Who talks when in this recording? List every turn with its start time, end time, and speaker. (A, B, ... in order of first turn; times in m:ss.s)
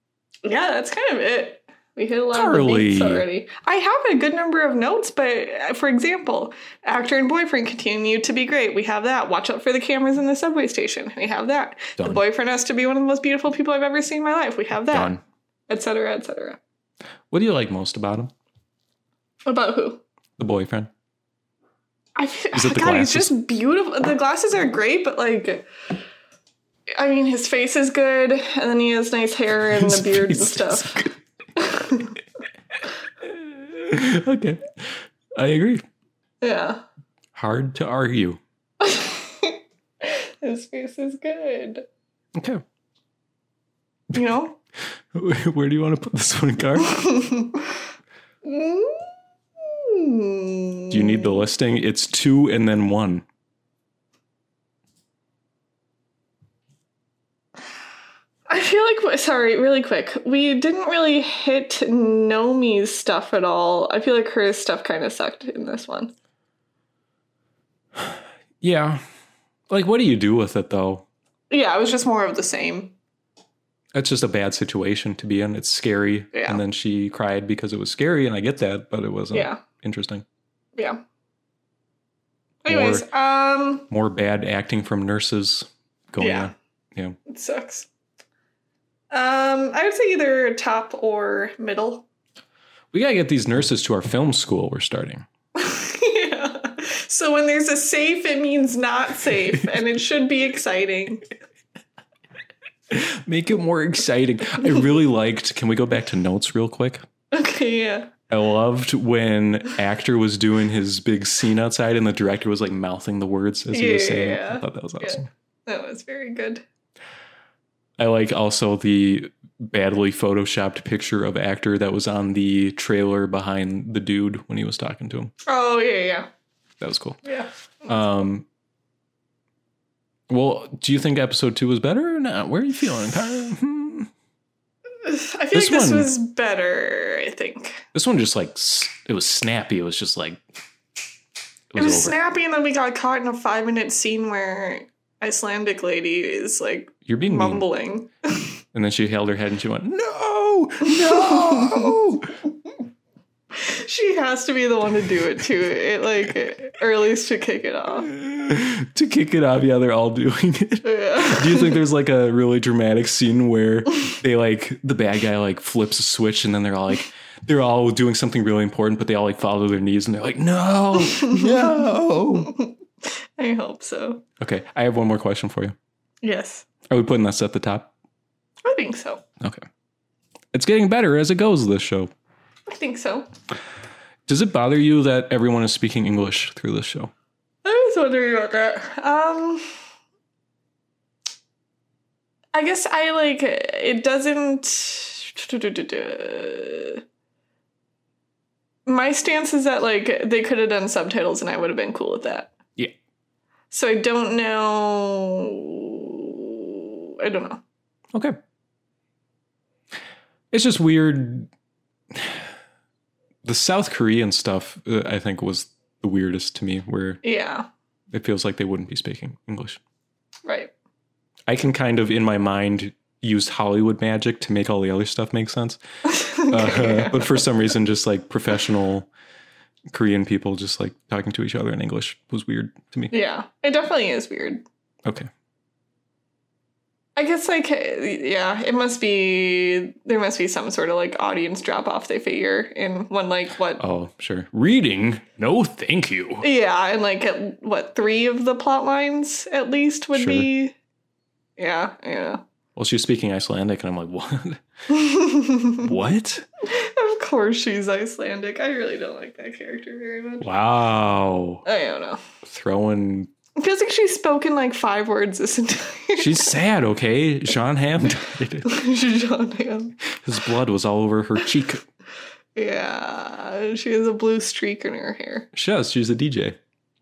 0:00.4-0:15.1 A
0:02.3-0:03.2 B
0:14.9-0:15.2 B
0:15.7-0:16.6 A
0:17.3-0:18.3 B
0:19.5-0:20.0 A
0:20.4-0:20.9 B
0:22.2-0:25.7 A
0:22.5-0:23.3 B
0:27.0-0:31.0 A
0:29.7-0:31.2 B
0:31.6-0:32.2 A
0:33.2-0:35.8 B
0:36.4-0:36.8 A
0:37.3-0:38.4 B
0:38.8-0:41.9 A
0:42.4-0:42.6 B
0:44.1-0:44.6 A
0:45.1-0:47.0 B
0:47.0-0:47.8 A
0:48.4-0:51.5 A
0:50.9-0:53.2 B
0:58.5-1:06.1 A
1:08.0-1:09.0 B
1:09.7-1:11.0 B
1:11.5-1:13.0 A
1:13.9-1:20.2 B
1:16.3-1:16.6 A
1:19.3-1:19.6 A
1:20.8-1:21.0 A
1:22.6-1:23.9 A
1:22.7-1:23.1 B
1:23.9-1:27.2 B
1:26.2-1:26.5 A
1:27.3-1:27.9 A
1:29.1-1:32.1 A
1:32.9-1:35.3 B
1:35.6-1:41.3 A
1:42.9-1:47.0 B
1:47.3-1:48.1 A
1:48.3-1:55.3 B
1:53.7-1:56.6 A
1:58.0-2:05.3 B
2:05.4-2:06.3 A
2:06.8-2:07.2 B
2:07.2-2:08.0 A
2:07.9-2:08.5 B
2:10.3-2:14.1 B
2:15.0-2:17.9 A
2:15.5-2:16.1 B
2:17.9-2:20.4 B
2:21.7-2:22.2 B
2:21.8-2:28.5 A
2:27.1-2:27.6 B
2:28.7-2:32.4 B
2:30.8-2:31.9 A
2:33.6-2:38.1 A
2:38.1-2:52.5 B
2:40.8-2:41.8 A
2:51.1-2:51.6 A
2:52.3-2:54.2 A
2:54.4-2:55.8 B
2:56.2-2:56.7 A
2:56.9-2:57.9 B
2:58.6-2:59.2 A
3:00.5-3:02.1 B
3:02.7-3:03.3 A
3:04.3-3:07.1 B
3:07.6-3:09.7 A
3:12.5-3:17.0 A
3:18.9-3:22.5 A
3:23.7-3:27.6 A
3:30.5-3:31.5 B
3:32.1-3:32.4 B
3:33.4-3:37.2 B
3:37.2-3:37.7 A
3:38.1-3:39.8 B
3:40.5-3:40.7 A
3:41.5-3:45.8 B
3:46.0-3:47.4 A
3:46.5-3:49.1 B
3:49.9-3:53.1 B
3:53.1-3:54.6 A
3:57.2-4:03.8 A
4:03.8-4:06.5 B
4:06.4-4:10.8 A
4:10.1-4:10.5 B
4:11.6-4:12.4 A
4:12.8-4:14.6 B
4:14.9-4:15.9 A
4:15.8-4:16.5 B
4:16.6-4:20.5 A
4:20.4-4:21.6 B
4:21.6-4:22.2 A
4:22.4-4:23.3 B
4:23.6-4:26.5 A
4:26.2-4:28.7 B
4:28.6-4:30.0 A
4:30.2-4:31.8 B
4:32.6-4:35.5 A
4:35.5-4:36.6 B